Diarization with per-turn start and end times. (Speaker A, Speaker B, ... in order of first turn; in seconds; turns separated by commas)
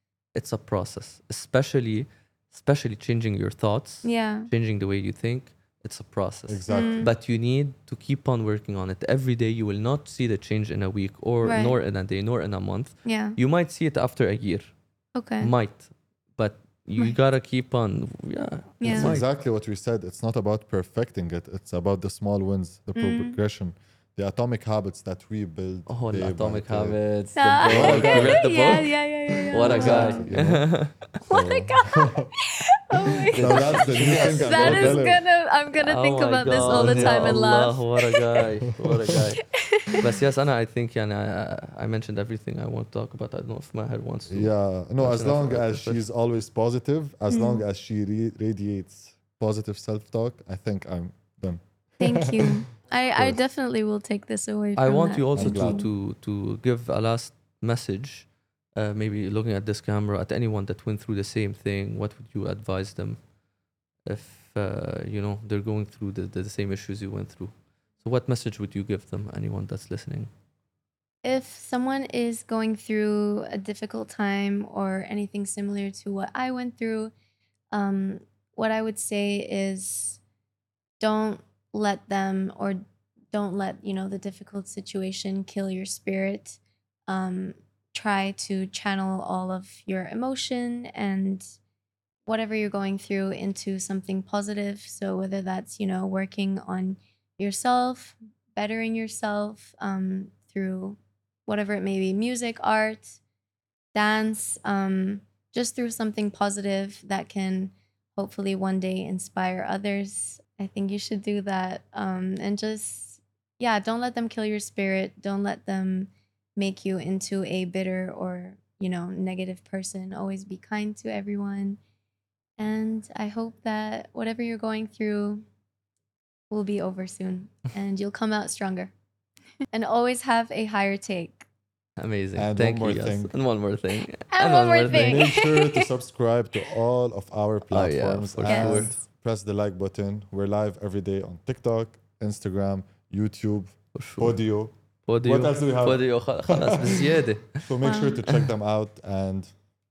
Speaker A: 0.3-19.3, Speaker B: 4.0-4.5, Speaker C: 6.5-7.0, Speaker B: 6.7-7.1, Speaker B: 11.4-11.8, Speaker B: 13.0-13.4, Speaker B: 15.2-15.5, Speaker B: 18.8-19.1, Speaker C: 18.9-28.8, Speaker B: 22.9-23.4, Speaker A: 25.9-31.0, Speaker B: 27.4-30.5, Speaker C: 29.4-32.3, Speaker B: 31.2-38.3, Speaker A: 33.3-35.2, Speaker C: 33.4-35.2, Speaker A: 35.8-46.0, Speaker C: 36.7-37.5, Speaker B: 39.6-40.0, Speaker C: 44.3-52.5, Speaker B: 47.3-47.6, Speaker B: 52.0-55.9, Speaker A: 54.8-63.3, Speaker C: 55.4-55.9, Speaker A: 64.0-70.3, Speaker B: 71.2-77.1, Speaker B: 77.7-80.2, Speaker B: 81.0-82.8, Speaker B: 83.3-91.5, Speaker B: 92.3-103.2, Speaker B: 103.9-121.8, Speaker B: 122.6-125.5, Speaker B: 126.5-128.9, Speaker B: 129.7-131.5, Speaker A: 132.0-135.3, Speaker C: 132.4-133.3, Speaker B: 134.3-135.8, Speaker C: 134.9-149.6, Speaker A: 137.7-139.0, Speaker B: 138.4-139.0, Speaker A: 143.9-144.4, Speaker A: 145.1-147.7, Speaker B: 147.8-148.2